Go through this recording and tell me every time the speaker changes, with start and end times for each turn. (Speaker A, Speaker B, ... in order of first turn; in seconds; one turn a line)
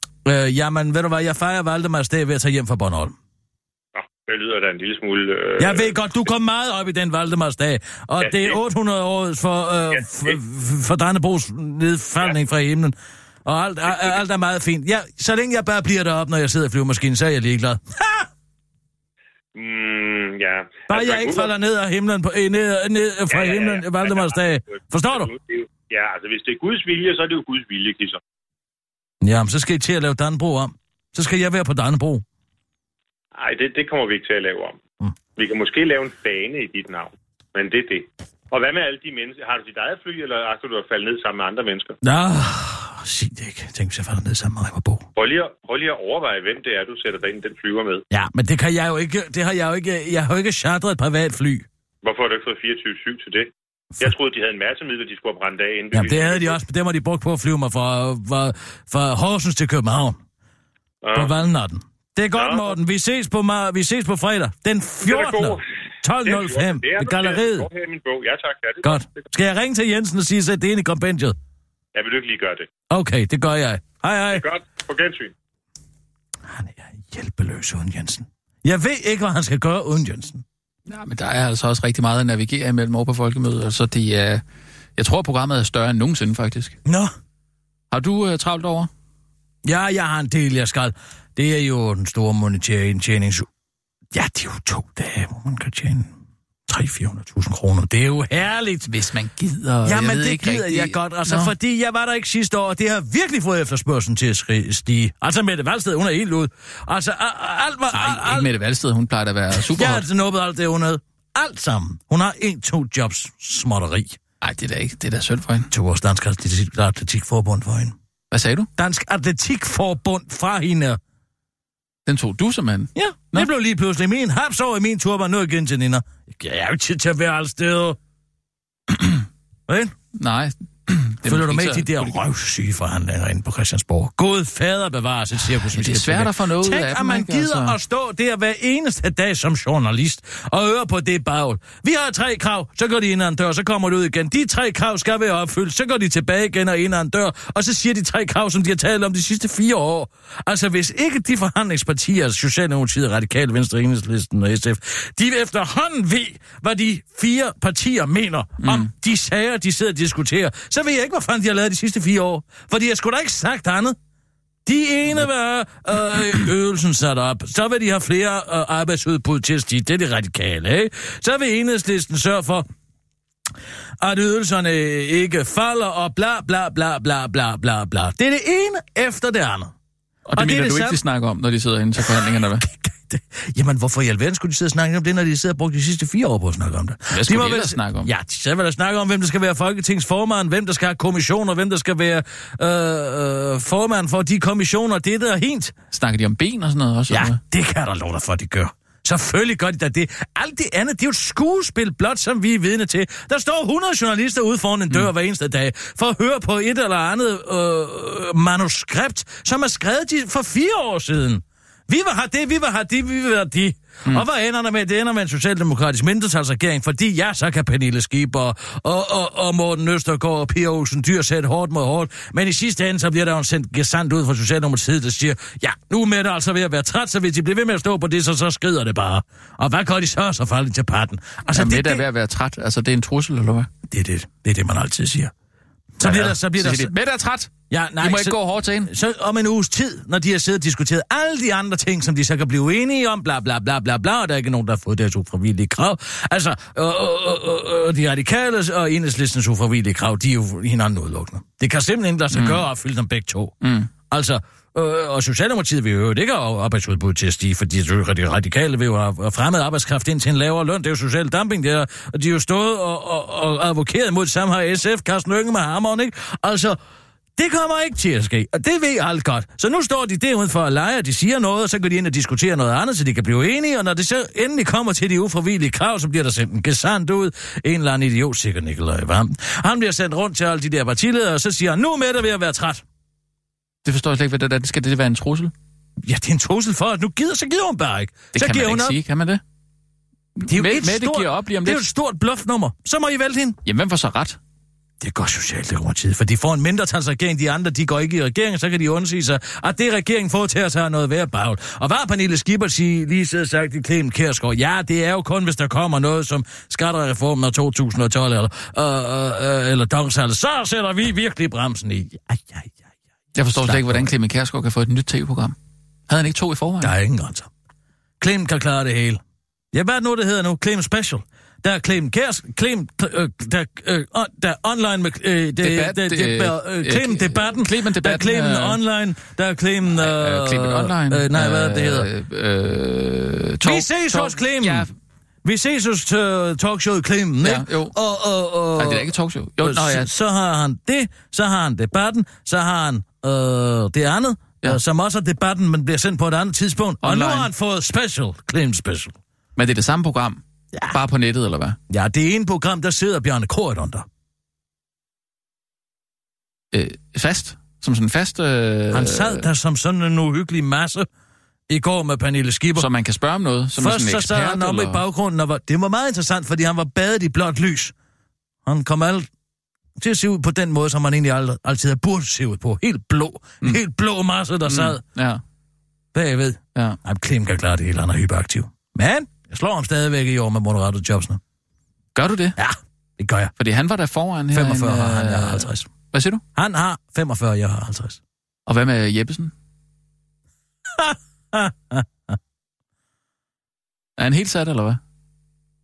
Speaker A: 0.2-3.1
Speaker B: 4.0-6.0
Speaker A: 5.6-18.3
Speaker B: 8.2-8.6
Speaker B: 9.9-10.4
Speaker B: 13.9-14.2
Speaker B: 19.6-21.5
Speaker A: 20.9-25.3
Speaker B: 23.3-28.2
Speaker A: 29.2-32.2
Speaker B: 33.4-34.8
Speaker B: 35.4-42.0
Speaker A: 42.0-45.0
Speaker B: 45.2-48.0
Speaker A: 48.1-51.7
Speaker B: 52.0-56.6
Speaker A: 55.9-60.2
Speaker B: 61.0-61.4
Speaker A: 61.1-67.7
Speaker B: 62.3-62.8
Speaker B: 65.0-65.6
Speaker B: 66.2-69.3
Speaker A: 68.8-71.4
Speaker B: 72.0-72.7
Speaker A: 72.9-74.4
Speaker B: 74.3-75.3
Speaker A: 76.5-80.4
Speaker C: 80.9-84.4
Speaker C: 85.0-86.8
Speaker A: 86.9-87.1
Speaker C: 87.9-88.9
Speaker A: 89.7-93.5
Speaker A: 94.1-96.1
Speaker A: 96.7-99.0
Speaker C: 98.9-101.5
Speaker A: 99.8-108.5
Speaker C: 107.9-110.0
Speaker A: 109.6-114.2
Speaker C: 114.4-115.7
Speaker A: 115.7-118.0
Speaker C: 118.3-118.7
Speaker A: 118.8-121.0
Speaker C: 122.1-123.5
Speaker A: 123.0-128.0
Speaker A: 129.7-129.9
Speaker C: 130.2-132.2
Speaker A: 131.2-163.9
Speaker C: 135.6-137.8
Speaker C: 158.6-158.9
Speaker A: 164.7-172.7
Speaker A: 174.0-179.7
Speaker C: 180.3-182.7
Speaker A: 180.4-181.0
Speaker A: 182.2-195.7
Speaker C: 187.1-188.1
Speaker C: 195.9-197.4
Speaker A: 197.1-232.0
Speaker C: 231.5-233.7
Speaker A: 233.9-235.3
Speaker A: 236.0-236.9
Speaker C: 236.0-238.9
Speaker A: 237.7-253.5
Speaker C: 252.3-252.6
Speaker C: 253.6-253.9
Speaker A: 254.1-266.8
Speaker A: 267.4-282.8
Speaker C: 283.9-285.5
Speaker A: 286.0-289.0
Speaker C: 288.3-289.4
Speaker C: 290.4-291.9
Speaker A: 290.5-293.6
Speaker C: 293.6-294.4
Speaker A: 295.0-312.8
Speaker C: 313.4-315.6
Speaker A: 313.6-314.1
Speaker C: 316.1-316.9
Speaker A: 316.8-317.5
Speaker A: 318.2-319.2
Speaker A: 319.7-332.1
Speaker C: 325.6-328.8
Speaker C: 329.9-334.9
Speaker A: 333.6-334.9
Speaker A: 335.4-339.1
Speaker C: 337.4-337.9
Speaker C: 338.8-340.1
Speaker A: 339.6-349.2
Speaker C: 347.0-347.5
Speaker C: 349.6-351.8
Speaker A: 351.9-354.1
Speaker C: 356.7-359.5
Speaker A: 358.9-361.1
Speaker A: 361.7-362.9
Speaker C: 362.8-365.0
Speaker A: 363.8-367.9
Speaker A: 368.7-369.3
Speaker A: 370.0-375.0
Speaker C: 374.7-375.4
Speaker A: 376.1-381.4
Speaker C: 382.1-382.6
Speaker A: 382.6-383.5
Speaker C: 383.6-386.4
Speaker A: 384.5-385.9
Speaker A: 386.6-388.2
Speaker C: 388.7-389.5
Speaker A: 390.9-392.4
Speaker C: 394.2-395.0